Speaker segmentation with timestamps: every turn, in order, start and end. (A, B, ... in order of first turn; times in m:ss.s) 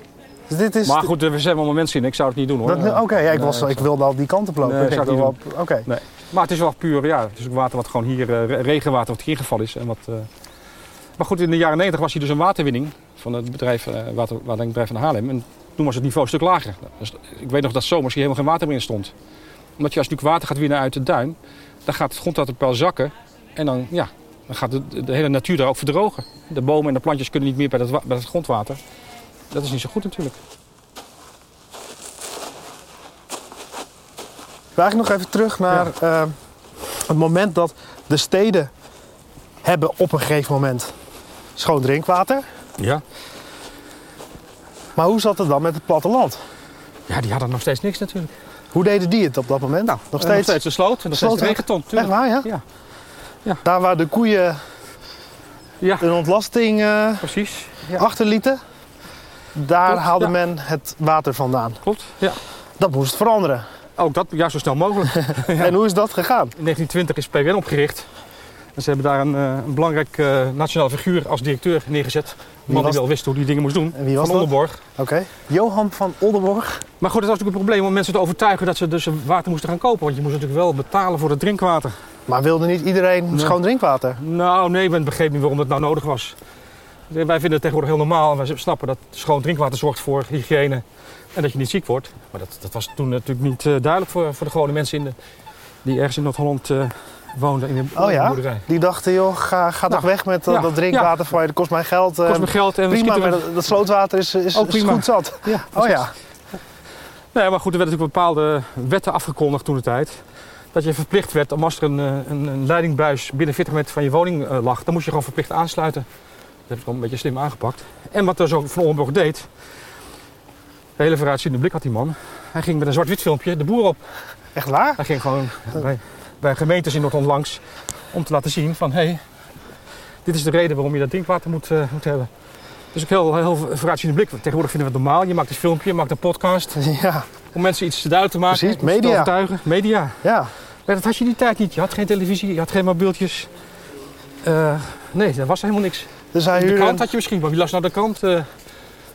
0:00.5-0:01.1 A
0:00.8-0:03.9 B
0:02.6-0:05.9 A
0:04.6-0:10.3 B
0:11.2-0:19.1 B
0:19.8-0:28.8 B
0:29.5-0:30.4 B
0:34.8-0:36.4 A
0:37.0-0:38.7 A
0:39.6-0:40.9 A
0:41.6-0:42.4 A
0:42.8-0:43.0 B
0:45.0-0:46.4 A
0:47.1-0:48.3 B
0:48.7-0:50.6 A
0:49.9-0:52.6 B
0:51.1-0:52.5 A
0:53.6-0:54.6 A
0:55.8-0:56.1 B
0:56.0-0:57.3 A
0:57.2-0:58.1 B
0:58.0-0:58.6 A
0:59.5-1:01.8 A
0:59.9-1:00.3 B
1:01.8-1:02.4 B
1:02.8-1:03.6 A
1:04.0-1:05.8 B
1:05.4-1:06.6 A
1:06.6-1:08.1 B
1:08.8-1:14.8 B
1:12.7-1:13.0 A
1:13.9-1:16.8 A
1:17.0-1:22.0 B
1:22.3-1:24.2 A
1:23.3-1:23.6 B
1:24.2-1:26.4 B
1:27.1-1:30.8 B
1:31.4-1:35.2 B
1:35.8-1:38.7 B
1:38.0-1:46.1 A
1:39.9-1:41.2 B
1:42.2-1:43.5 B
1:44.5-1:46.1 B
1:47.3-1:50.2 B
1:50.7-1:56.1 B
1:56.7-1:59.5 B
2:01.0-2:04.0 B
2:04.6-2:05.0 A
2:05.0-2:07.6 B
2:08.1-2:09.2 B
2:10.2-2:12.3 B
2:12.9-2:16.8 B
2:16.8-2:17.3 A
2:17.5-2:20.2 B
2:18.5-2:19.3 A
2:20.2-2:20.5 A
2:20.9-2:23.5 B
2:24.4-2:28.5 B
2:26.3-2:27.1 A